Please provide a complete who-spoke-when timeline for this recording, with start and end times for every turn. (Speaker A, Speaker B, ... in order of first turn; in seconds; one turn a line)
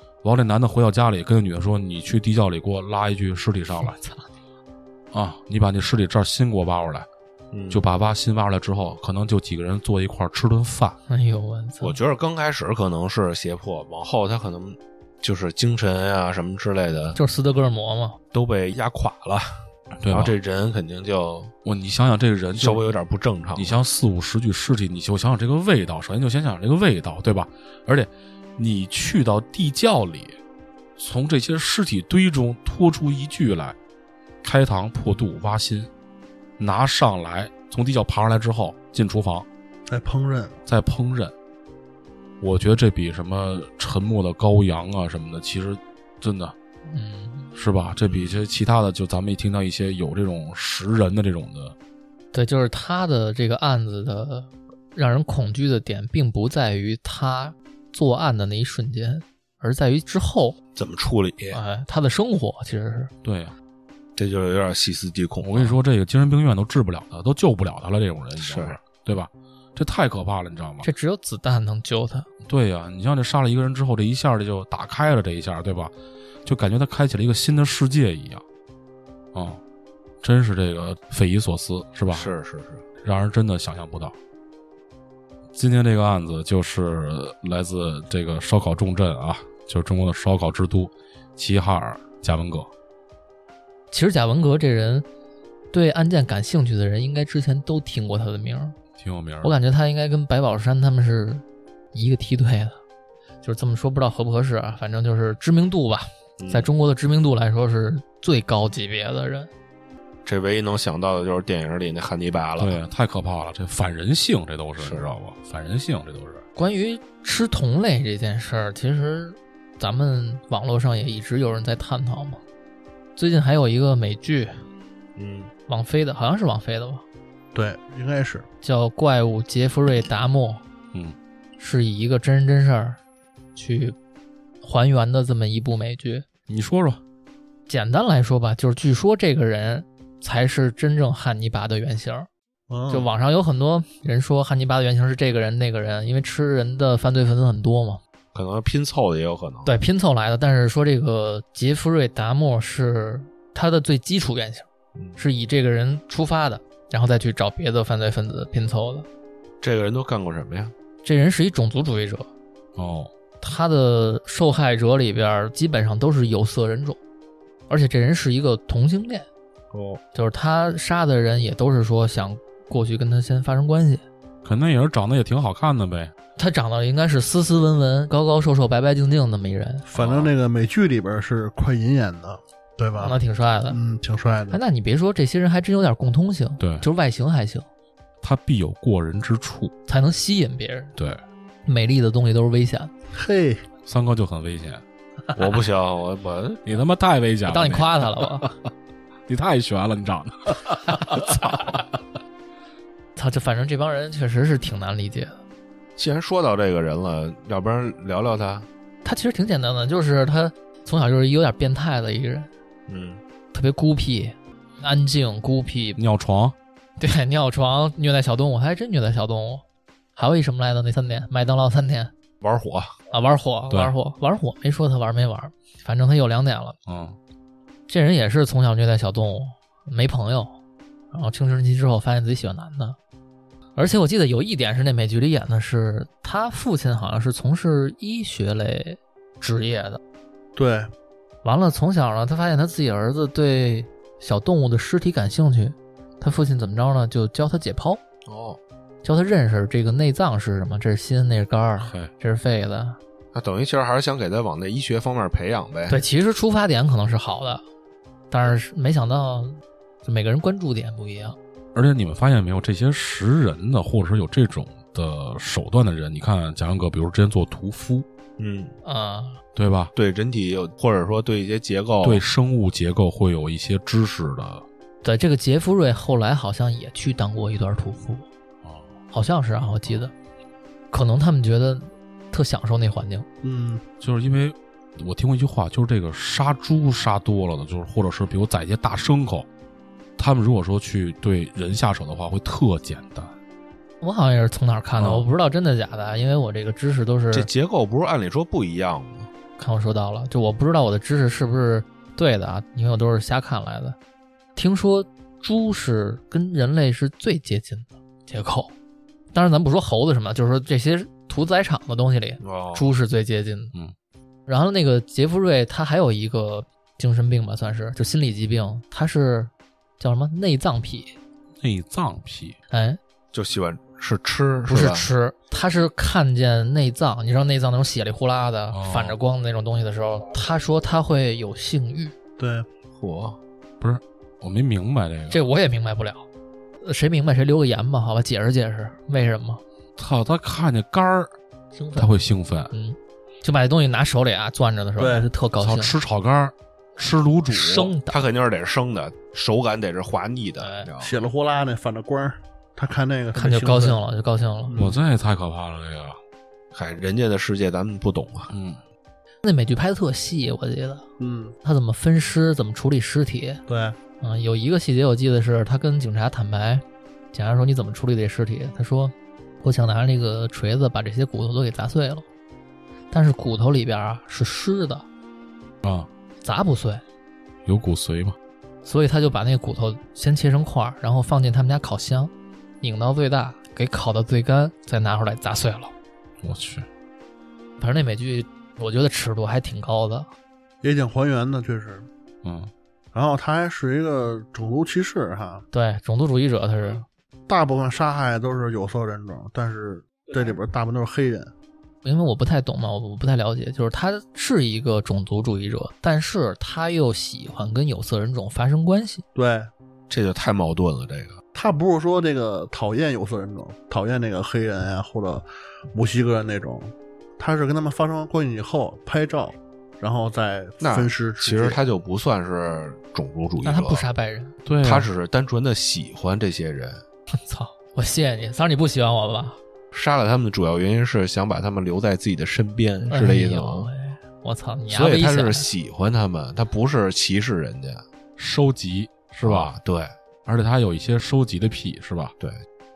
Speaker A: 0.2-4.0
Speaker B: 3.8-4.3
Speaker A: 5.1-7.1
Speaker C: 7.5-7.9
Speaker A: 7.7-11.0
Speaker B: 11.1-12.0
Speaker C: 11.8-17.2
Speaker B: 17.1-18.2
Speaker C: 18.3-21.5
Speaker A: 20.0-20.3
Speaker A: 21.6-22.9
Speaker C: 22.5-23.7
Speaker A: 23.6-30.4
Speaker A: 31.0-33.8
Speaker A: 34.4-35.9
Speaker A: 36.6-39.5
Speaker D: 39.9-40.5
Speaker A: 40.7-41.3
Speaker A: 42.4-46.5
Speaker B: 46.9-47.5
Speaker A: 47.5-51.7
Speaker C: 48.0-48.4
Speaker B: 52.3-60.6
Speaker C: 60.8-61.6
Speaker B: 61.5-63.1
Speaker A: 63.2-63.5
Speaker C: 64.2-65.8
Speaker A: 65.4-70.9
Speaker C: 68.4-68.8
Speaker B: 70.8-72.3
Speaker A: 72.4-75.9
Speaker A: 76.4-78.4
Speaker A: 79.3-79.6
Speaker A: 80.2-82.3
Speaker C: 82.1-82.8
Speaker A: 83.0-84.1
Speaker A: 85.5-92.7
Speaker B: 93.9-95.0
Speaker B: 95.7-98.8
Speaker A: 99.0-99.5
Speaker B: 99.4-102.8
Speaker B: 103.4-109.5
Speaker C: 106.4-106.7
Speaker C: 110.2-112.8
Speaker A: 112.6-116.4
Speaker C: 114.8-115.1
Speaker B: 116.5-122.4
Speaker B: 123.2-124.7
Speaker C: 125.2-125.5
Speaker B: 125.7-127.0
Speaker D: 127.5-128.5
Speaker B: 128.6-130.6
Speaker B: 131.6-133.0
Speaker B: 133.5-133.9
Speaker B: 134.6-136.2
Speaker A: 136.5-137.0
Speaker B: 137.7-142.3
Speaker D: 142.7-143.1
Speaker B: 142.9-148.0
Speaker C: 148.3-149.7
Speaker B: 149.7-159.1
Speaker C: 159.6-160.7
Speaker B: 161.0-162.3
Speaker A: 162.8-163.1
Speaker B: 163.4-167.0
Speaker B: 167.7-169.3
Speaker C: 169.7-170.0
Speaker B: 170.1-174.0
Speaker A: 174.4-176.1
Speaker B: 176.4-179.8
Speaker D: 179.9-183.2
Speaker C: 179.9-180.3
Speaker B: 183.0-183.8
Speaker D: 183.7-184.6
Speaker B: 184.5-187.7
Speaker A: 186.6-186.8
Speaker A: 188.2-189.7
Speaker B: 189.9-190.9
Speaker B: 191.7-192.9
Speaker D: 193.1-193.6
Speaker A: 193.8-194.8
Speaker C: 195.3-196.6
Speaker A: 196.6-198.6
Speaker B: 197.5-198.5
Speaker A: 199.3-202.0
Speaker B: 203.2-205.4
Speaker C: 205.9-208.7
Speaker B: 209.0-212.5
Speaker C: 212.9-213.2
Speaker B: 213.5-216.0
Speaker A: 215.9-216.5
Speaker B: 217.0-219.6
Speaker B: 220.2-222.1
Speaker C: 222.4-222.9
Speaker B: 223.1-226.8
Speaker A: 226.8-227.2
Speaker B: 227.9-230.5
Speaker B: 231.1-233.0
Speaker B: 233.8-240.0
Speaker D: 240.6-240.9
Speaker B: 241.4-248.0
Speaker C: 248.2-248.6
Speaker B: 249.0-253.0
Speaker A: 251.8-252.1
Speaker C: 253.3-256.0
Speaker B: 255.9-257.6
Speaker B: 258.3-261.4
Speaker A: 261.7-268.1
Speaker C: 268.4-268.7
Speaker B: 268.8-269.4
Speaker A: 269.6-269.9
Speaker C: 269.9-272.2
Speaker A: 272.0-274.6
Speaker B: 275.0-278.2
Speaker A: 278.6-278.9
Speaker B: 279.1-280.1
Speaker B: 280.9-283.2
Speaker D: 283.4-283.8
Speaker A: 284.0-289.5
Speaker A: 290.2-293.3
Speaker B: 294.0-297.5
Speaker A: 295.0-295.3
Speaker C: 297.3-299.3
Speaker B: 299.6-303.9
Speaker B: 304.5-308.7
Speaker B: 309.3-313.7
Speaker C: 312.4-312.9
Speaker B: 314.5-321.1
Speaker A: 321.6-322.6
Speaker B: 322.7-323.0
Speaker C: 323.3-325.1
Speaker B: 324.7-332.1
Speaker A: 328.7-329.2
Speaker D: 332.4-332.7
Speaker C: 332.9-333.4
Speaker A: 333.8-335.4
Speaker B: 335.3-336.2
Speaker B: 336.8-339.6
Speaker A: 340.0-341.3
Speaker B: 341.7-342.1
Speaker A: 341.9-342.7
Speaker B: 342.7-345.9
Speaker D: 345.0-345.3
Speaker A: 345.6-347.9
Speaker B: 347.5-348.2
Speaker C: 348.1-351.1
Speaker B: 350.6-350.9
Speaker D: 351.0-354.0
Speaker B: 353.3-354.7
Speaker D: 354.7-355.0
Speaker A: 354.8-356.2
Speaker C: 356.7-358.5
Speaker A: 358.5-358.8
Speaker B: 359.4-361.0
Speaker D: 361.2-361.6
Speaker B: 361.6-363.6
Speaker D: 363.7-363.9
Speaker B: 364.2-372.2
Speaker B: 373.1-375.0
Speaker A: 375.8-376.1
Speaker B: 376.4-377.0
Speaker A: 377.6-378.4
Speaker B: 378.8-385.9
Speaker A: 386.4-386.9
Speaker B: 387.8-390.3
Speaker D: 390.8-392.1
Speaker A: 392.4-392.7
Speaker D: 393.1-395.6
Speaker B: 395.7-397.0
Speaker D: 397.5-401.5
Speaker B: 402.0-409.2
Speaker D: 409.3-409.7
Speaker C: 410.1-411.4
Speaker D: 411.5-421.8
Speaker C: 420.8-424.0
Speaker B: 423.6-424.5
Speaker A: 424.6-425.1
Speaker C: 424.8-427.0
Speaker B: 427.3-429.6
Speaker C: 429.9-433.9
Speaker B: 433.1-435.6
Speaker C: 434.9-438.0
Speaker A: 438.4-439.7
Speaker C: 439.4-440.1
Speaker A: 440.4-442.3